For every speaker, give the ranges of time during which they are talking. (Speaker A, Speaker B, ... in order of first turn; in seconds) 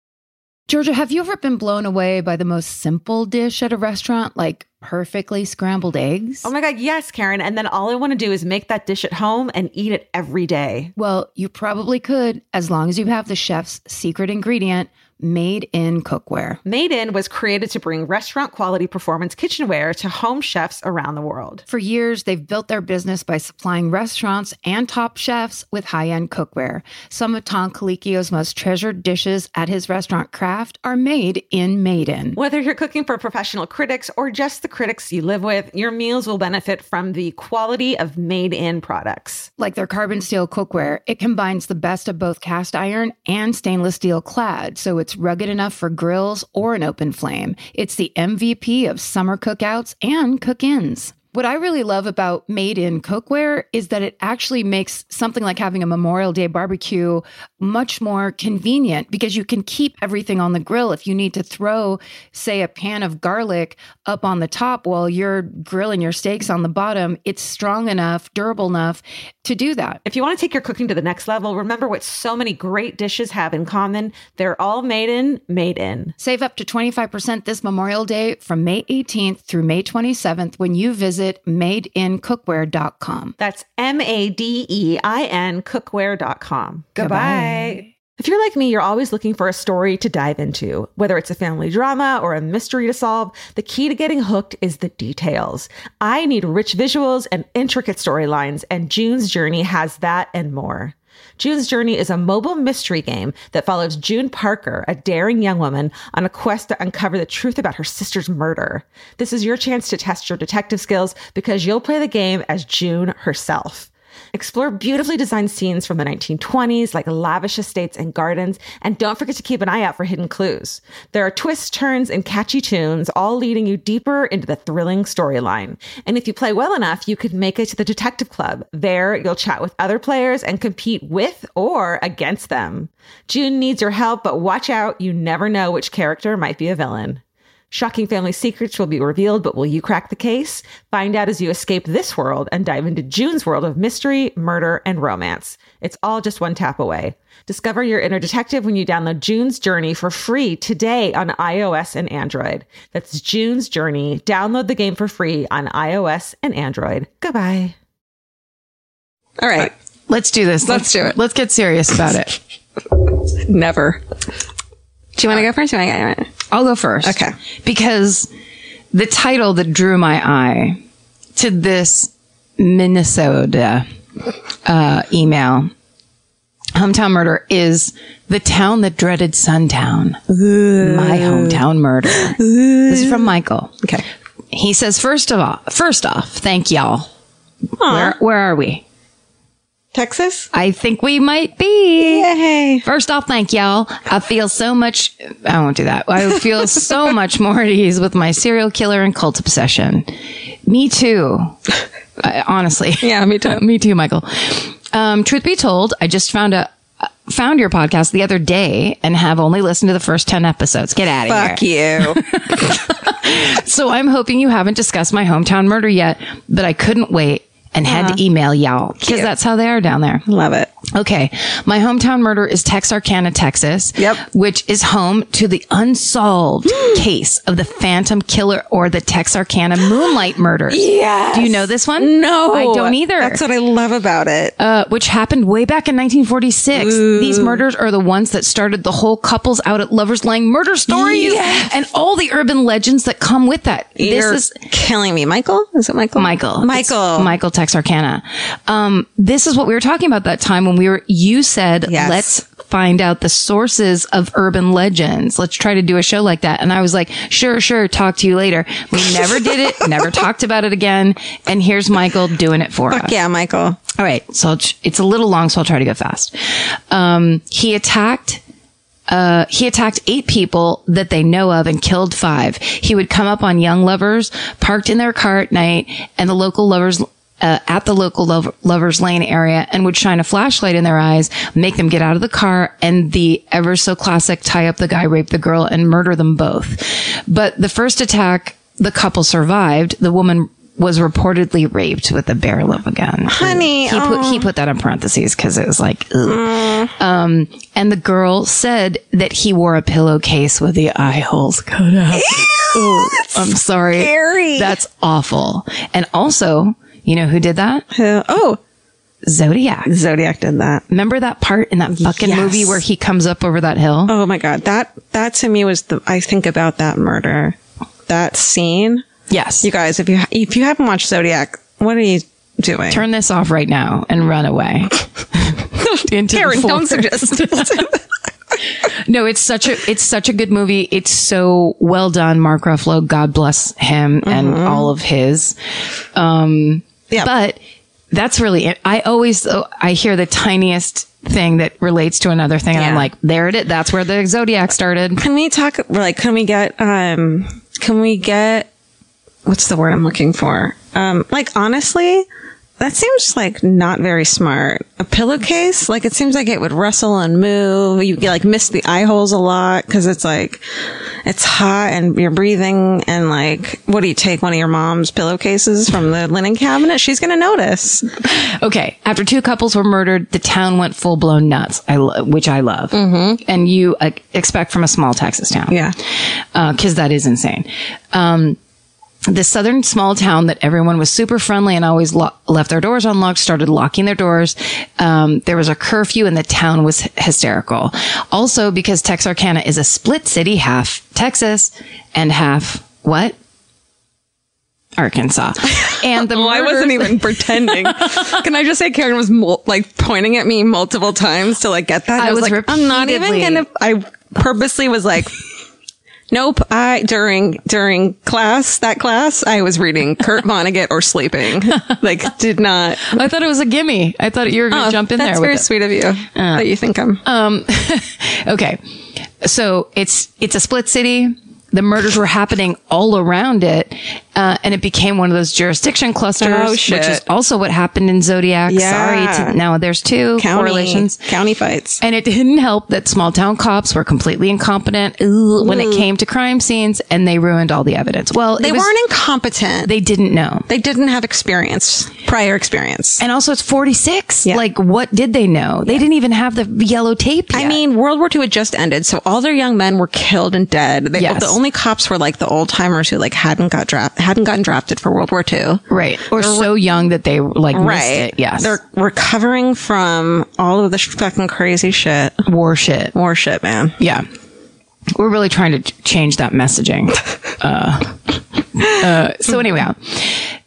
Speaker A: 0.7-6.5, 11.0-16.6, 21.7-32.4, 39.6-70.0, 76.2-83.3, 87.0-87.9, 159.6-162.4, 166.5-168.3, 168.9-170.8, 171.4-173.9, 174.7-175.7, 176.8-180.2, 180.8-183.7, 184.5-187.1, 187.8-188.8, 190.5-192.3, 192.8-200.1, 200.7-201.6, 202.2-206.7, 207.3-220.2, 220.9-233.4, 234.6-244.6, 246.2-263.1, 264.0-266.4, 266.9-268.4, 269.1-307.9, 309.2-309.9, 310.9-314.1, 319.3-319.7, 322.9-327.9, 329.1-335.6, 336.1-337.6, 338.1-345.2, 368.3-375.8, 376.5-378.6, 379.3-393.4, 395.0-398.4, 402.2-403.6, 413.1-415.7, 416.3-416.7, 417.2-418.8, 419.4-431.2, 432.0-438.9, 439.8-440.7, 443.2-447.8, 451.2-451.6, 455.9-458.8, 462.4-463.1, 464.0-464.3, 465.1-470.5
Speaker B: 6.5-10.9, 16.6-21.6, 32.4-39.5, 70.0-76.2, 83.4-157.8
Speaker C: 159.4-159.7, 160.7-161.2, 163.4-164.0, 165.2-166.3, 167.0-167.3, 180.3-181.6, 182.2-183.3, 187.8-188.2, 189.9-190.5, 192.0-192.8, 203.0-203.6, 211.3-212.5, 217.9-218.2, 219.0-219.3, 220.3-220.7, 224.0-224.2, 230.7-234.6, 236.7-237.6, 240.9-241.7, 244.0-247.4, 251.9-252.3, 262.9-263.8, 293.3-294.5, 296.2-296.9, 302.1-304.8, 307.9-308.6, 309.9-310.8, 312.0-312.8, 314.1-317.6, 318.1-319.1, 319.6-323.0, 325.8-328.0, 334.2-334.9, 342.7-343.1, 345.2-348.7, 349.4-352.3, 352.8-360.6, 361.2-368.1, 372.9-373.4, 375.7-375.9, 396.1-405.4, 406.3-413.2, 414.7-417.2, 426.4-427.2, 428.7-429.6, 430.4-432.0, 435.6-436.1, 438.6-439.9, 440.7-443.2, 447.5-456.7, 457.7-462.4, 463.1-464.0